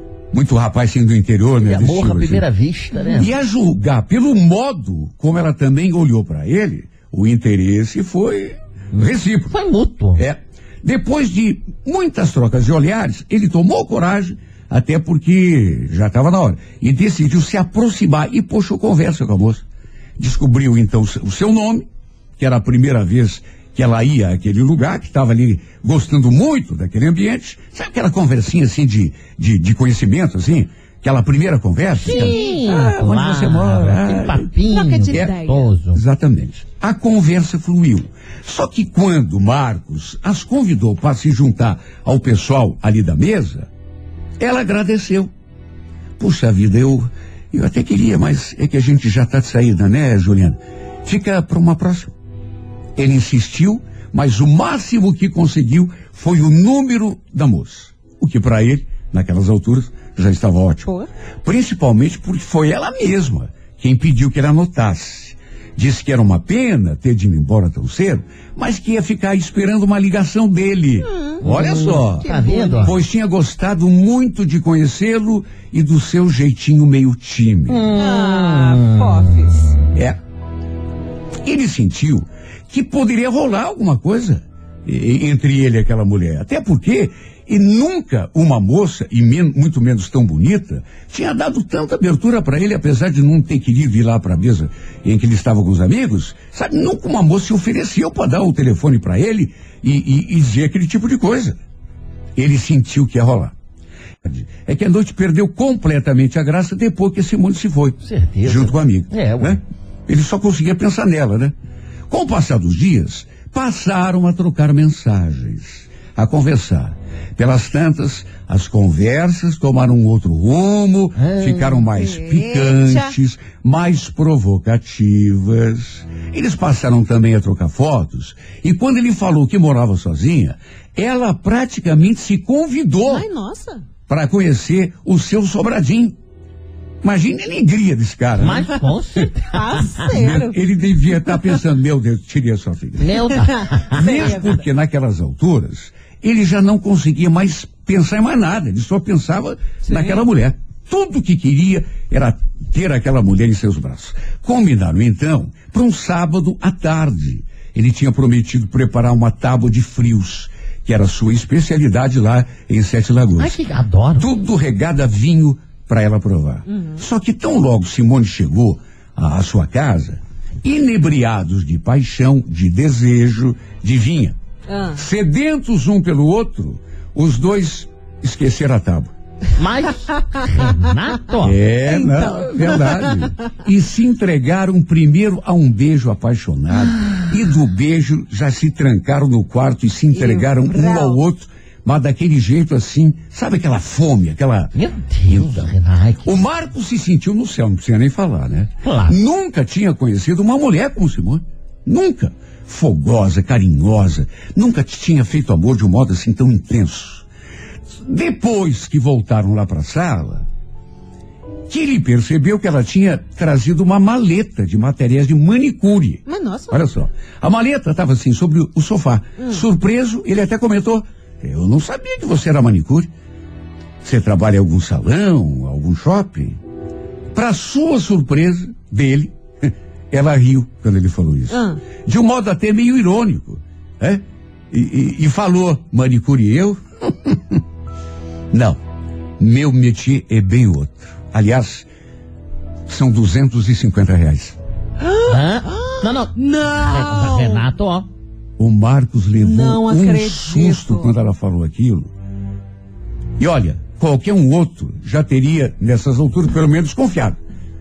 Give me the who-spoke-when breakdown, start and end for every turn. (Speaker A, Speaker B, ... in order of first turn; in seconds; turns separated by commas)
Speaker A: 0.3-2.5, Speaker B: 1.6-3.4, Speaker A: 3.1-9.6, Speaker B: 9.0-10.2, Speaker A: 10.1-19.6, Speaker A: 20.2-21.9, Speaker A: 22.4-34.5, Speaker B: 32.0-36.0, Speaker C: 32.0-32.7, Speaker C: 34.6-35.7, Speaker A: 35.9-43.7, Speaker A: 44.4-45.3, Speaker A: 46.2-52.1, Speaker A: 53.0-60.9, Speaker A: 61.4-77.9, Speaker C: 71.0-73.0, Speaker B: 71.4-73.0, Speaker B: 77.7-79.9, Speaker C: 77.9-79.8, Speaker A: 79.9-80.2, Speaker A: 81.4-101.6, Speaker A: 102.4-103.5, Speaker A: 104.2-111.5, Speaker B: 108.0-109.6, Speaker A: 112.1-133.2, Speaker B: 121.2-121.9, Speaker C: 121.9-123.1, Speaker C: 133.1-133.8, Speaker A: 134.1-136.2, Speaker A: 137.0-138.9, Speaker B: 138.4-140.1, Speaker C: 139.4-140.6, Speaker A: 140.1-163.6, Speaker B: 143.0-144.4, Speaker C: 143.3-144.6, Speaker C: 149.9-150.2, Speaker B: 163.4-164.4, Speaker A: 164.2-174.4, Speaker C: 166.7-167.0, Speaker C: 174.7-175.0, Speaker A: 174.9-179.1, Speaker B: 179.6-181.6, Speaker A: 181.4-194.7, Speaker C: 181.9-183.3, Speaker C: 190.1-191.2, Speaker B: 194.7-196.4, Speaker A: 195.3-195.7, Speaker A: 196.2-207.3, Speaker B: 198.8-199.2, Speaker A: 208.0-210.5, Speaker A: 211.7-223.1, Speaker C: 216.3-216.8, Speaker A: 224.0-226.6, Speaker A: 227.3-237.6, Speaker C: 231.5-231.8, Speaker A: 238.5-238.8, Speaker A: 239.4-241.9, Speaker A: 242.9-244.6, Speaker C: 245.0-247.6, Speaker B: 245.3-248.1, Speaker A: 248.6-252.1, Speaker C: 249.4-251.1, Speaker A: 253.4-257.4